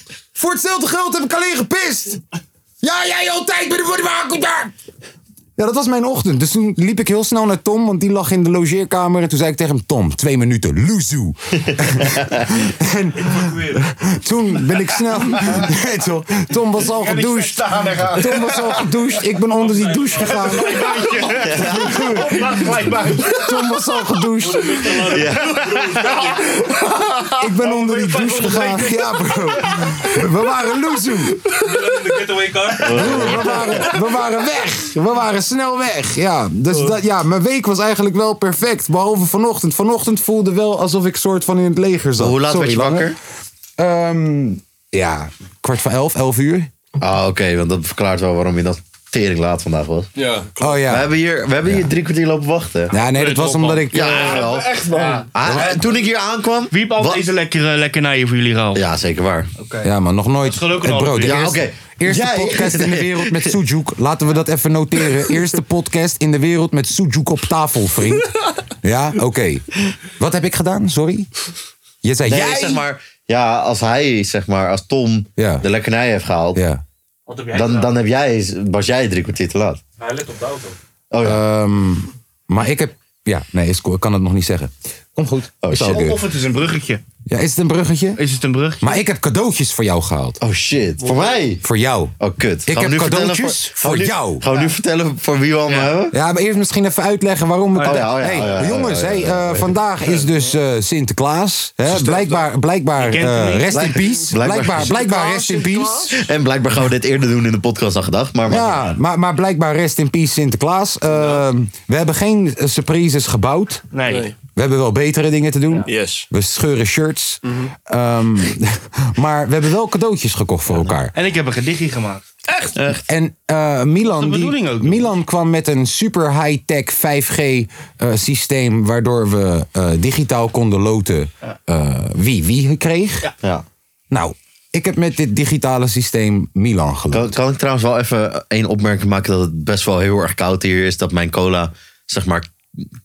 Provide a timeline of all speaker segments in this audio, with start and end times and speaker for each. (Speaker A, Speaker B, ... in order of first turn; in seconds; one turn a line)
Speaker A: 0.3-2.2
Speaker A: 2.8-4.7
Speaker A: 5.6-20.9
Speaker B: 11.6-12.5
Speaker C: 13.4-13.7
Speaker D: 16.9-18.8
Speaker C: 19.5-20.9
Speaker D: 20.2-23.4
Speaker B: 21.4-22.2
Speaker A: 21.5-24.8
Speaker C: 24.4-26.4
Speaker B: 25.0-25.6
Speaker D: 25.1-26.4
Speaker A: 27.4-31.4
Speaker D: 27.6-28.9
Speaker C: 31.6-33.3
Speaker B: 32.8-33.9
Speaker A: 32.9-43.2
Speaker B: 42.2-43.2
Speaker A: 43.8-46.7
Speaker B: 47.0-50.1
Speaker E: 50.1-50.8
Speaker A: 50.6-51.1
Speaker B: 50.9-52.9
Speaker A: 51.6-51.9
Speaker A: 52.9-54.3
Speaker D: 53.1-55.8
Speaker E: 53.5-55.3
Speaker B: 53.9-57.3
Speaker A: 55.4-55.8
Speaker D: 56.7-58.8
Speaker B: 58.8-59.5
Speaker D: 59.6-59.9
Speaker A: 59.8-71.3
Speaker D: 60.4-61.5
Speaker B: 61.2-63.6
Speaker A: 72.0-72.8
Speaker B: 72.2-76.6
Speaker A: 75.4-75.7
Speaker A: 76.5-76.8
Speaker D: 77.3-77.9
Speaker B: 77.5-79.8
Speaker C: 80.0-80.8
Speaker B: 81.1-81.4
Speaker A: 81.2-86.2
Speaker B: 85.6-86.2
Speaker D: 85.7-87.0
Speaker A: 87.3-88.2
Speaker D: 88.2-89.0
Speaker A: 88.8-90.4
Speaker B: 90.4-91.6
Speaker A: 91.6-94.4
Speaker B: 92.2-96.2
Speaker A: 96.1-106.2
Speaker D: 97.8-98.6
Speaker B: 97.8-99.7
Speaker E: 101.9-102.5
Speaker D: 103.0-103.9
Speaker B: 103.7-105.0
Speaker E: 104.8-106.1
Speaker B: 106.1-108.9
Speaker A: 108.5-113.8
Speaker E: 111.1-111.4
Speaker D: 113.9-114.3
Speaker E: 114.1-114.3
Speaker A: 114.5-121.1
Speaker E: 115.9-116.2
Speaker E: 117.4-117.7
Speaker D: 121.1-122.2
Speaker A: 123.1-133.3
Speaker D: 124.1-125.1
Speaker A: 134.1-137.3
Speaker B: 137.1-142.5